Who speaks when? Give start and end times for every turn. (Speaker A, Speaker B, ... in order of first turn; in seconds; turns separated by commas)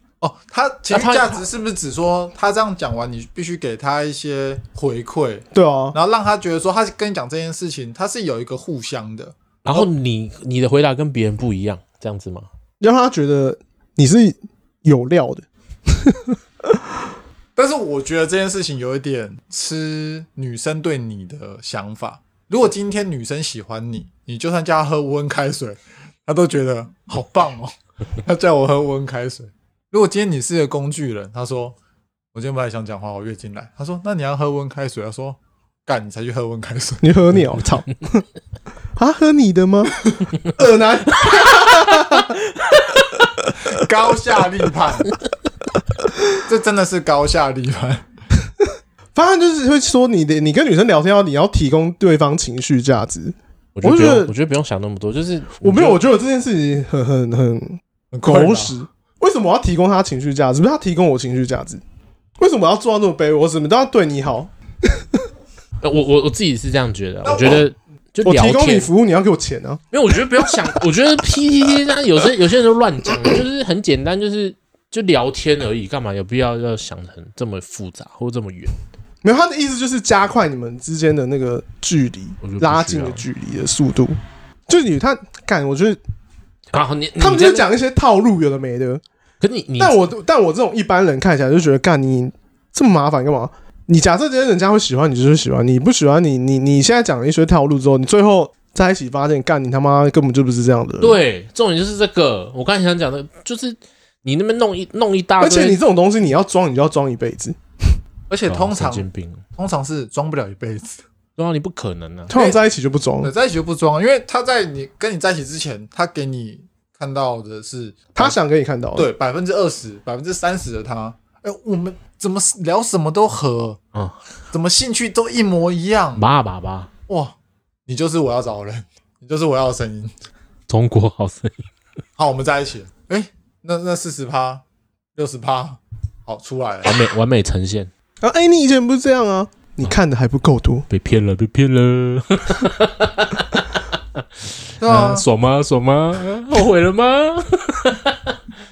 Speaker A: 0.2-9.9, Speaker B: 0.9-1.4, Speaker C: 5.5-6.0, Speaker B: 9.6-12.5, Speaker C: 12.8-16.9, Speaker A: 17.6-31.8, Speaker A: 32.3-37.1, Speaker C: 37.0-38.2, Speaker C: 39.0-39.9, Speaker C: 40.5-42.4, Speaker B: 41.7-43.2, Speaker A: 43.6-45.1, Speaker A: 46.4-48.0, Speaker C: 49.1-54.3, Speaker B: 53.8-56.0, Speaker C: 55.6-61.8, Speaker A: 58.1-58.7, Speaker C: 62.4-65.2, Speaker B: 65.8-68.9, Speaker A: 67.2-67.6, Speaker C: 68.2-69.8, Speaker B: 69.9-78.7, Speaker C: 79.2-84.2, Speaker B: 82.4-83.2, Speaker C: 84.7-86.0, Speaker B: 86.7-87.7, Speaker C: 87.2-89.0, Speaker B: 89.4-90.0, Speaker C: 89.8-101.2, Speaker B: 101.0-105.8, Speaker C: 105.4-107.6, Speaker A: 108.3-111.0, Speaker B: 108.5-109.4, Speaker B: 111.4-112.3, Speaker C: 112.3-113.3, Speaker A: 112.3-112.6, Speaker A: 113.2-118.3, Speaker C: 118.2-119.1, Speaker A: 119.0-123.8, Speaker B: 123.9-124.2, Speaker A: 124.5-126.2, Speaker B: 126.2-126.9, Speaker A: 127.1-127.3, Speaker A: 127.9-130.1, Speaker B: 130.7-131.7, Speaker A: 132.2-134.6, Speaker A: 135.2-137.0, Speaker B: 136.8-137.9, Speaker C: 138.2-140.9, Speaker B: 140.9-144.2, Speaker A: 144.8-145.2, Speaker B: 144.8-148.3